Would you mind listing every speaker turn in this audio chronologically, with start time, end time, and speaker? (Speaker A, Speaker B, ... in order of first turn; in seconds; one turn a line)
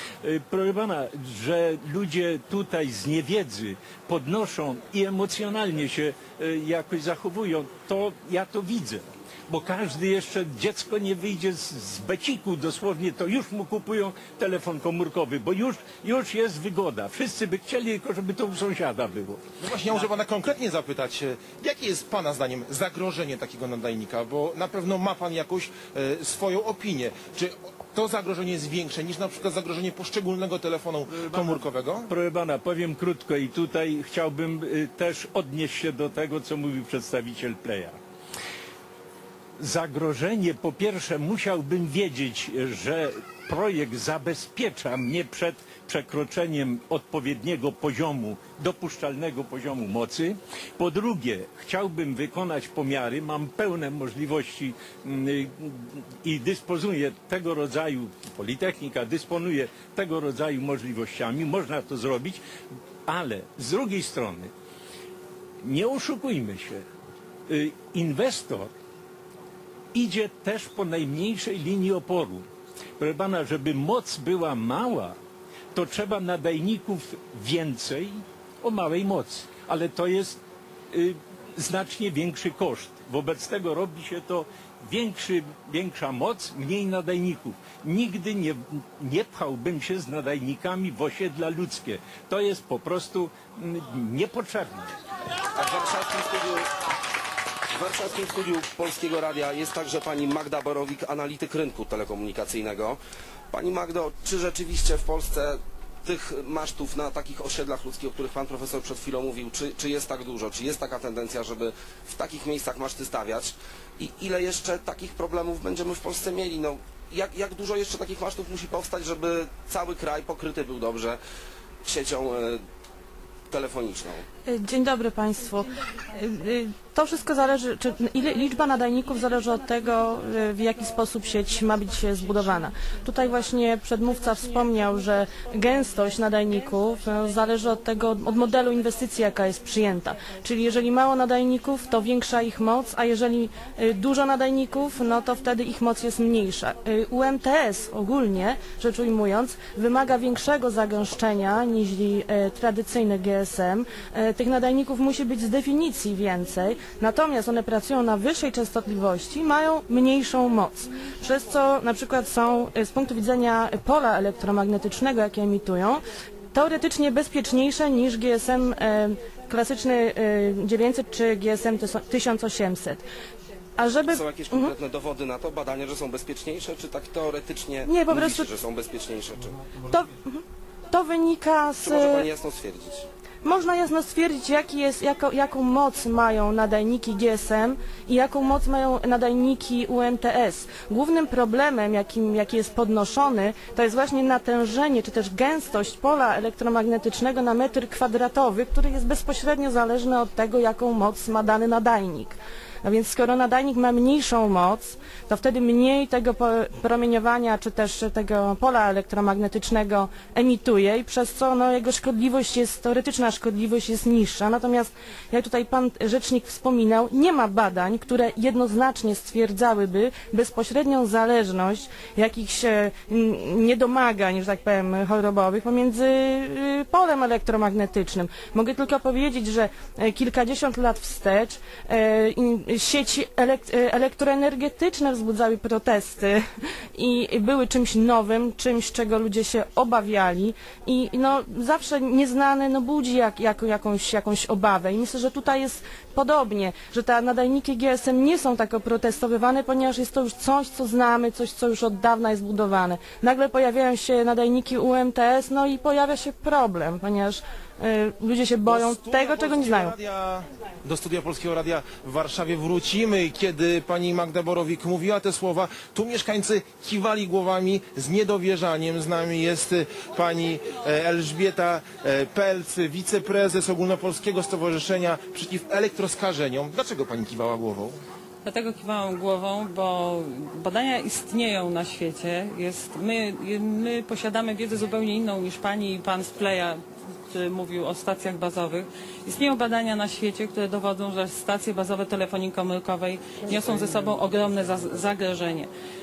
Speaker A: 0.2-19.4
Speaker B: 19.6-32.1
Speaker A: 31.2-38.0
Speaker A: 39.6-62.4
Speaker A: 63.0-64.5
Speaker A: 65.6-66.8
Speaker A: 67.5-68.7
Speaker A: 69.9-72.5
Speaker A: 73.0-75.2
Speaker A: 75.7-94.9
Speaker C: 95.6-96.7
Speaker C: 97.7-103.0
Speaker C: 103.5-121.2
Speaker C: 121.8-122.6
Speaker C: 123.5-124.2
Speaker D: 124.5-166.0
Speaker D: 166.5-173.0
Speaker D: 173.8-174.7
Speaker C: 174.1-179.7
Speaker D: 177.8-178.5
Speaker D: 179.8-182.3
Speaker C: 181.8-183.1
Speaker D: 183.4-236.4
Speaker D: 236.9-259.9
Speaker B: 258.6-278.0
Speaker E: 278.4-286.8
Speaker E: 287.3-295.7